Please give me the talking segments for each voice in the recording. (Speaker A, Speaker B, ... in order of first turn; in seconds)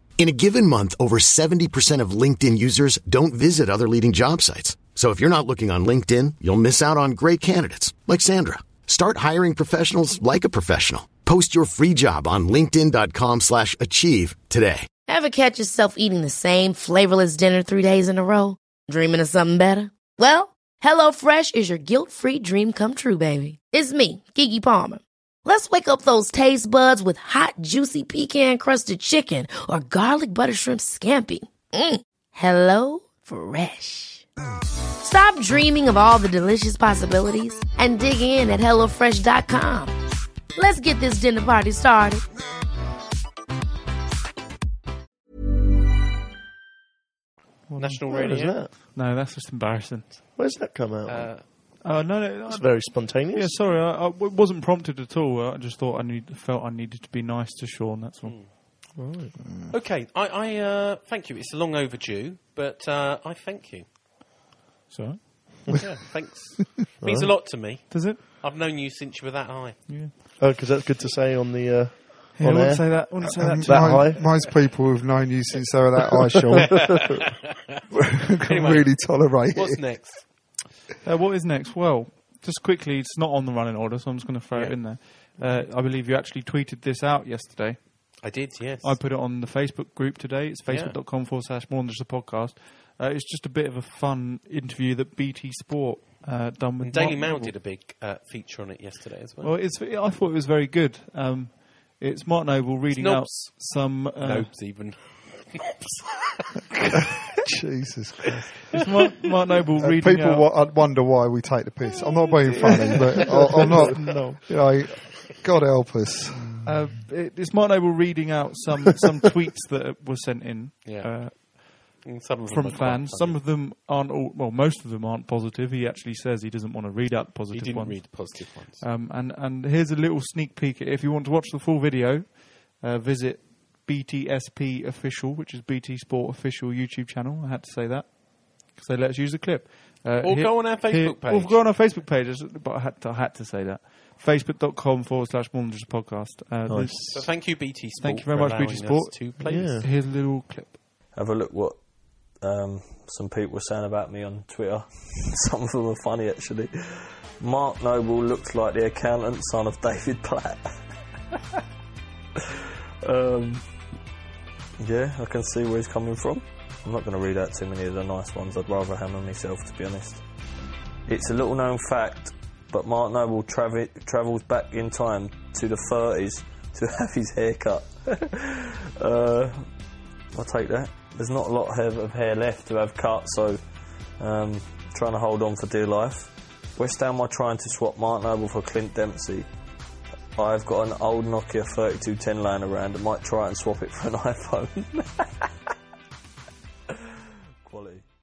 Speaker A: 0.2-14.9
Speaker B: 15.1-34.2, 35.0-39.9, 40.5-42.2
Speaker C: 47.7-50.2, 51.8-58.4, 64.9-65.6, 67.9-68.2, 69.9-70.1, 72.3-74.1, 81.0-97.5, 99.4-104.6, 108.7-110.5, 116.6-150.8
Speaker D: 47.8-48.7, 51.0-51.4, 58.2-58.5, 59.7-63.8, 65.8-70.0, 76.7-77.5, 78.4-80.3, 84.5-84.8, 88.2-89.0, 90.7-91.0, 96.8-99.5, 102.9-106.1, 120.8-123.4, 127.5-128.8, 140.2-141.6, 147.1-149.8
Speaker E: 48.0-48.7, 50.3-51.4, 52.4-53.6, 58.9-59.4, 67.0-67.4, 70.4-74.5, 113.1-114.5, 146.7-147.3, 149.4-149.9
Speaker F: 59.5-59.7, 73.3-76.9, 78.1-80.0, 107.5-108.4, 109.8-116.5
Speaker G: 151.1-151.8, 152.4-160.7, 163.0-163.6, 164.8-170.2, 171.1-179.7, 180.3-183.6, 184.2-189.5, 190.3-195.4, 197.6-198.0